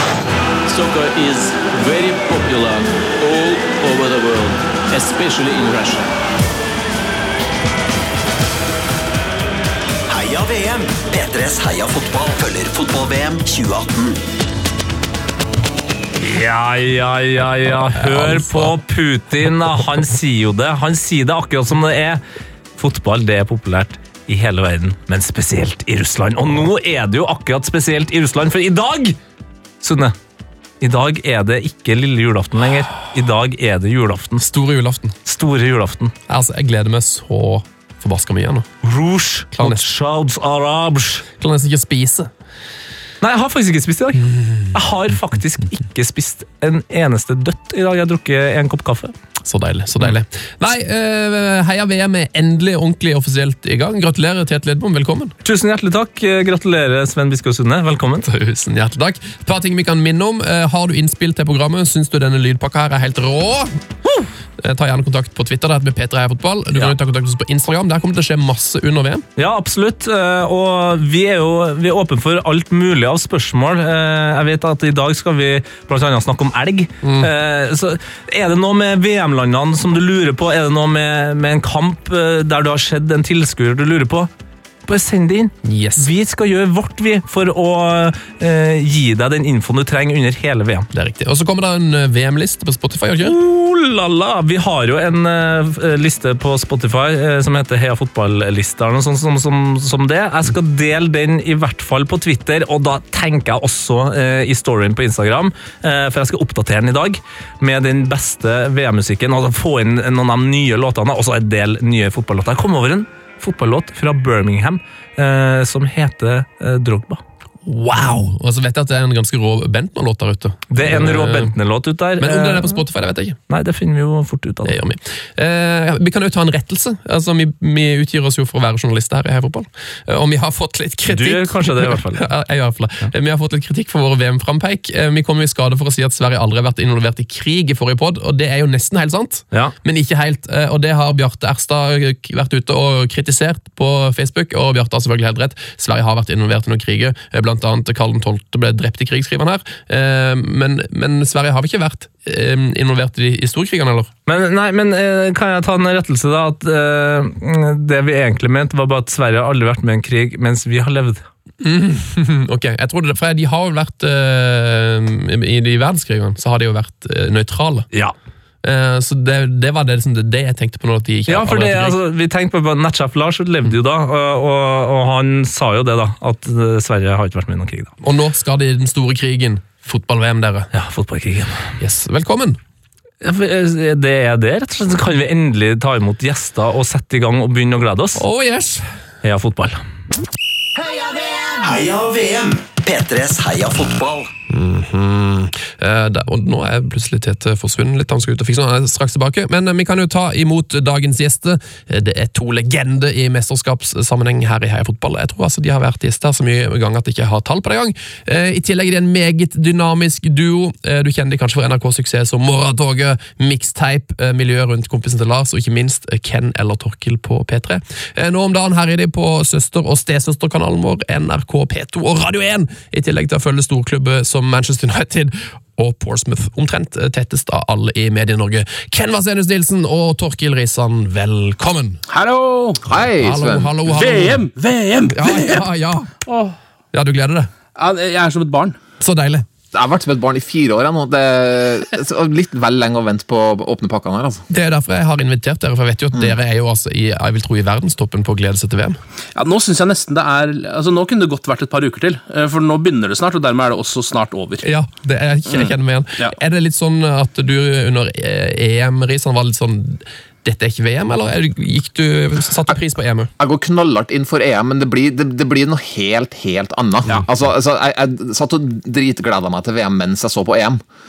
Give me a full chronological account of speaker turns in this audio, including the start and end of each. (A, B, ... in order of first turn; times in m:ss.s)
0:00.7-0:06.1 A
0:10.1-0:14.2 B
0:16.2-0:22.2 C
0:18.0-0:18.8 D
0:22.8-0:29.2 C
0:29.8-0:30.1 C
0:30.8-0:34.5 C
0:34.4-0:35.2 D
0:35.2-0:36.2 C
0:36.3-0:38.7 D
0:38.8-0:41.2 C
0:39.6-0:39.8 D
0:41.4-0:42.3 D
0:43.2-0:49.1 C
0:44.2-0:44.8 D
0:49.4-0:55.4 D
0:55.4-0:58.3 C
0:58.3-1:03.8 D
1:04.6-1:09.2 D
1:09.4-1:24.3 C
1:17.0-1:17.3 D
1:24.9-1:30.9 C
1:25.6-1:26.1 D
1:30.9-1:33.4 D
1:33.2-1:57.2 C
1:57.6-2:01.5 D
2:00.7-2:02.8 C
2:02.2-2:03.4 D
2:03.5-2:04.8 C
2:04.6-2:34.1 D
2:11.1-2:12.3 C
2:34.3-2:41.2 C
2:41.6-2:47.9 D
2:48.6-2:52.0 D
2:51.3-2:57.9 C
2:58.0-3:00.7 D
3:00.7-3:01.8 C
3:01.8-3:02.6 D
3:03.2-3:08.2 C
3:08.2-3:08.8 D
3:09.2-3:09.8 C
3:10.8-3:14.3 B
3:14.5-3:52.0 D
3:52.1-3:52.9 E
3:52.9-3:53.7 F
3:53.2-3:54.4 D
3:53.9-3:55.7 E
3:55.1-3:56.1 D
3:56.2-3:56.6 E
3:56.9-3:57.5 D
3:57.8-3:58.8 E
3:59.0-3:59.5 D
3:59.7-4:04.4 F
4:04.5-4:09.0 D
4:09.4-4:14.6 E
4:14.6-4:23.3 D
4:15.5-4:16.3 E
4:23.4-4:30.8 F